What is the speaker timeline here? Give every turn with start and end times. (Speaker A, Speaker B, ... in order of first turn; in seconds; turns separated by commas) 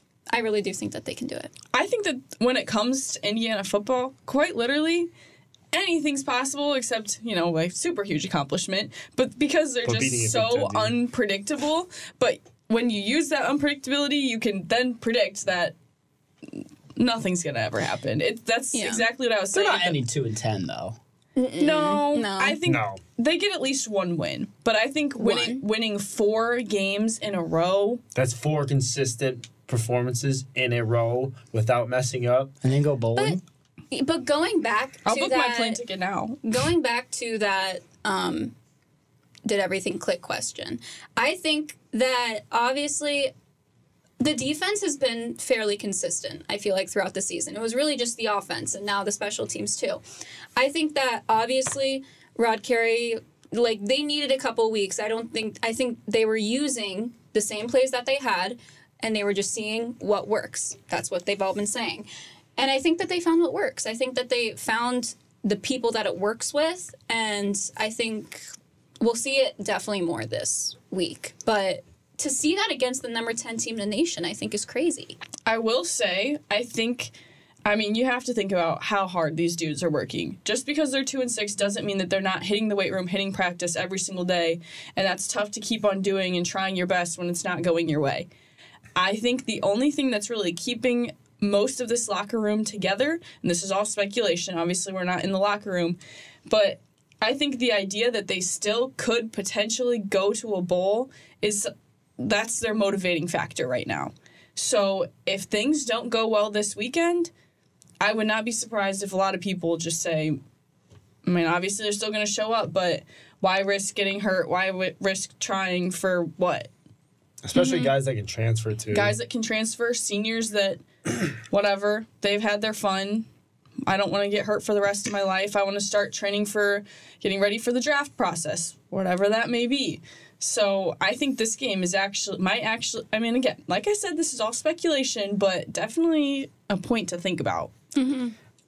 Speaker A: 0.3-1.5, Speaker B: 1.7-5.1, Speaker B: 5.7-15.7, Speaker C: 9.8-10.9, Speaker B: 16.5-20.0, Speaker A: 18.7-19.1, Speaker D: 19.5-21.0, Speaker A: 21.4-22.6, Speaker B: 21.6-28.0, Speaker C: 22.6-23.0, Speaker A: 25.2-25.6, Speaker C: 28.1-32.5, Speaker D: 32.6-33.4, Speaker A: 33.9-35.8, Speaker B: 35.0-36.4, Speaker A: 36.4-38.5, Speaker A: 39.5-43.3, Speaker A: 44.2-50.0, Speaker A: 50.5-68.5, Speaker A: 69.0-75.2, Speaker B: 75.5-77.1, Speaker B: 77.6-88.3, Speaker B: 89.0-107.3, Speaker B: 108.0-110.4, Speaker B: 111.2-116.7, Speaker C: 117.4-119.1, Speaker A: 117.5-117.9, Speaker B: 118.9-120.8, Speaker B: 121.3-123.3, Speaker B: 123.9-137.7, Speaker A: 137.9-138.3